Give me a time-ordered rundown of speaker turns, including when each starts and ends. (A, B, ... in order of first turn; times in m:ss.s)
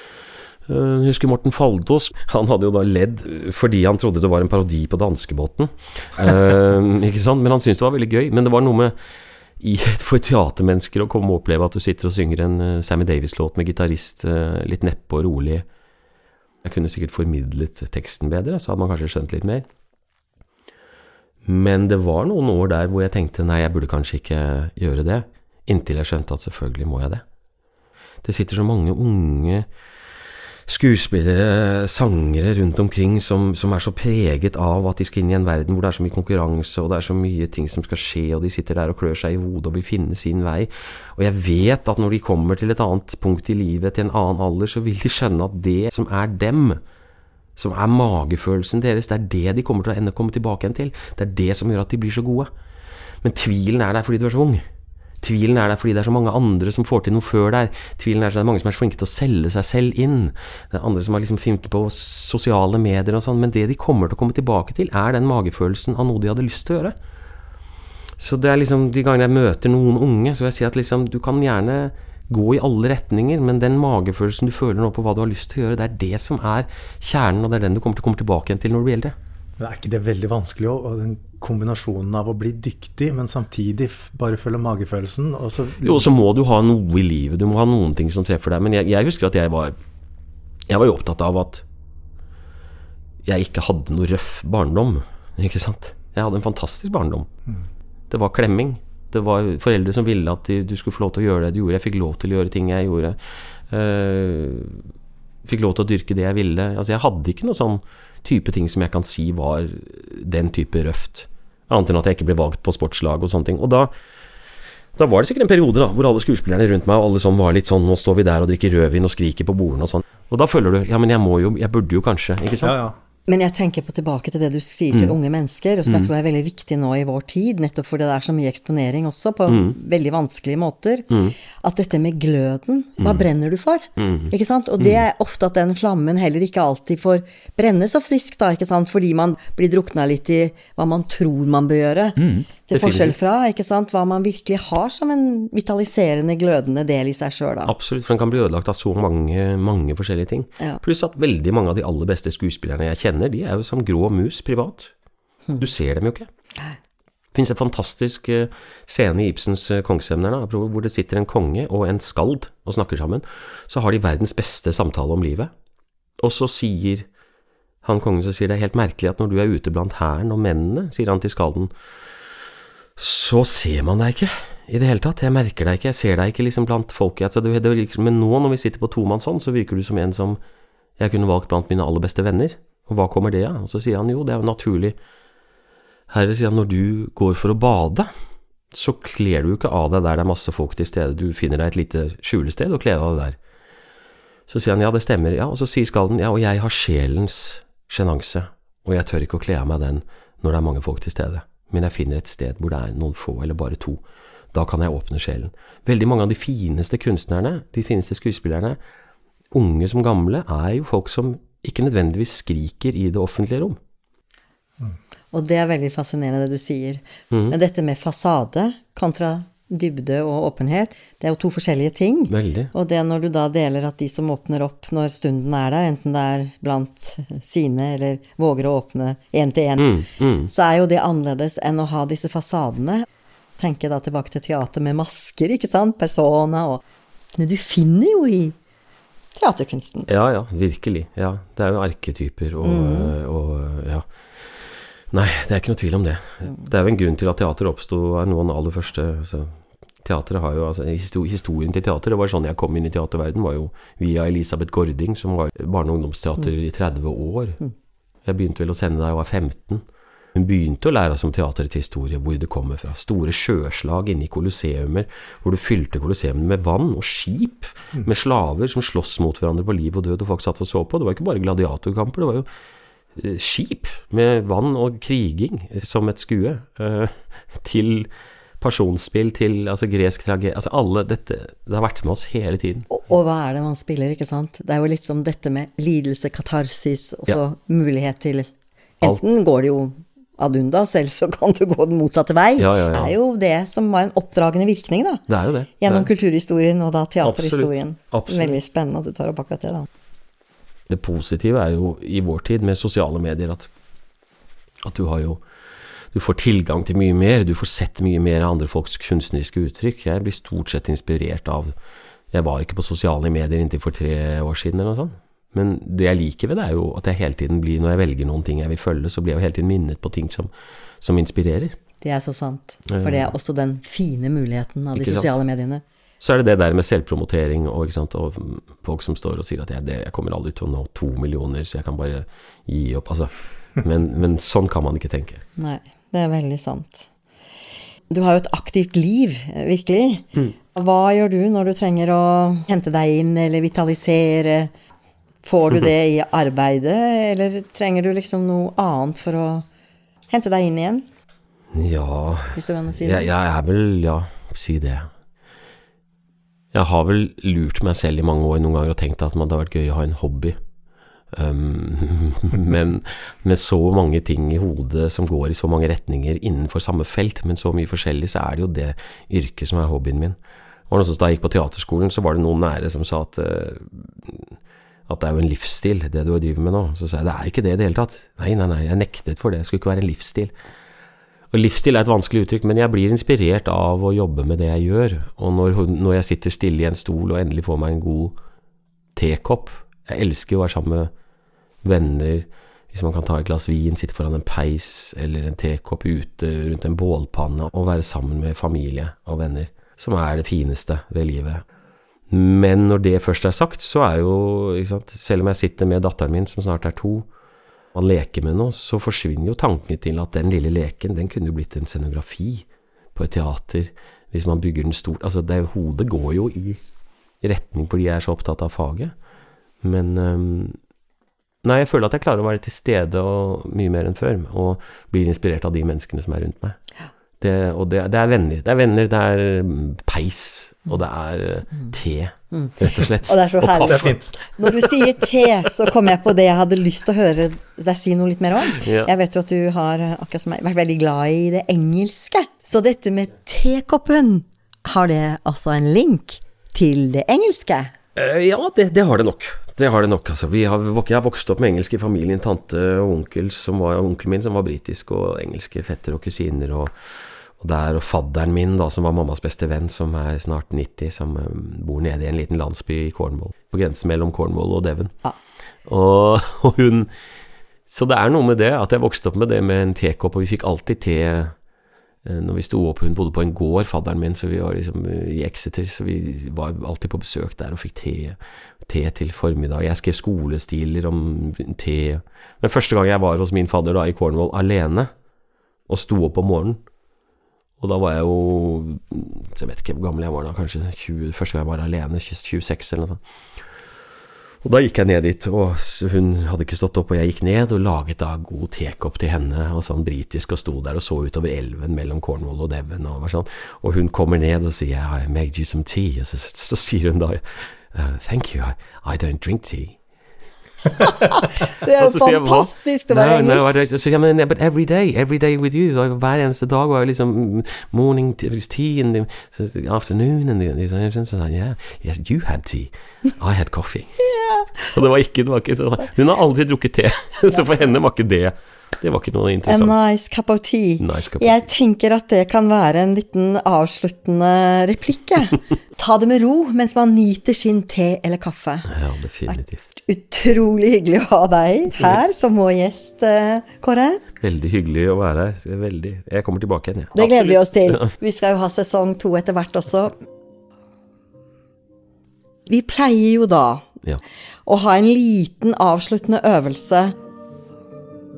0:00.7-0:08.9 A
0:09.6-0:15.6 A
0:16.6-0:19.6 A
0:21.4-0:27.2 A
0:28.2-0:29.7 A
0:30.7-0:46.8 A
0:47.6-0:52.5 A
0:53.2-0:54.6 A
0:55.2-1:06.9 A
1:08.2-1:19.1 A
1:19.6-1:26.1 B
1:25.8-1:29.8 A
1:30.7-1:31.6 A
1:33.2-1:37.3 A
1:38.1-1:44.9 A
1:45.4-1:53.9 A
1:55.0-2:02.8 A
2:02.6-2:03.0 B
2:03.3-2:27.7 C
2:09.5-2:09.7 A
2:13.0-2:13.2 A
2:14.0-2:14.3 A
2:22.3-2:23.1 A
2:27.6-2:34.9 A
2:35.6-2:36.3 A
2:37.3-2:45.5 A
2:46.2-2:47.1 A
2:47.8-2:51.7 A
2:53.0-3:00.4 A
3:01.0-3:05.0 A
3:06.1-3:08.1 A
3:08.7-3:13.4 A
3:14.5-3:28.8 A
3:29.5-3:33.8 A
3:35.3-3:53.0 C
3:42.3-3:42.7 A
3:49.8-3:50.5 A
3:53.6-3:56.8 C
3:57.4-3:58.5 C
3:59.4-4:00.1 C
4:00.1-4:04.0 A
4:02.6-4:03.1 C
4:05.1-4:17.6 A
4:18.2-4:19.8 A
4:20.3-4:32.4 A
4:33.2-4:38.1 A
4:38.6-4:42.8 A
4:42.9-4:55.2 C
4:52.6-4:53.1 A
4:55.3-4:56.1 A
4:55.8-4:59.9 C
4:57.2-4:58.6 A
5:00.9-5:03.7 A
5:04.8-5:05.4 A
5:06.1-5:11.7 A
5:12.3-5:21.8 A
5:22.0-5:25.8 C
5:22.9-5:23.3 A
5:24.9-5:25.3 A
5:26.2-5:35.4 A
5:35.6-5:37.1 C
5:38.1-5:44.7 C
5:45.4-5:49.6 C
5:50.3-5:51.0 C
5:51.7-5:55.1 A
5:52.5-5:53.3 C
5:56.7-6:00.6 A
6:01.3-6:10.4 A
6:10.9-6:20.5 A
6:21.5-6:28.4 A
6:29.2-6:31.1 A
6:31.8-6:41.6 A
6:42.3-6:47.2 A
6:47.9-6:56.8 A
6:57.4-6:59.1 A
6:59.8-7:00.8 A
7:01.6-7:06.8 A
7:07.4-7:15.3 A
7:12.5-7:27.9 C
7:13.8-7:14.3 B
7:18.7-7:19.1 A
7:28.1-7:36.9 A
7:37.6-7:45.1 A
7:45.8-7:47.1 A
7:47.9-7:51.5 A
7:52.2-8:05.1 A
8:05.9-8:06.8 A
8:07.8-8:13.2 A
8:14.6-8:30.0 A
8:31.0-8:33.7 C
8:31.6-8:44.2 A
8:44.2-8:44.8 C
8:44.8-8:49.9 A
8:49.7-8:58.9 C
8:51.0-8:51.7 A
8:58.9-8:59.8 A
8:59.5-9:04.2 C
9:04.4-9:08.1 A
9:07.1-9:10.2 C
9:12.7-9:13.9 C
9:14.6-9:17.1 C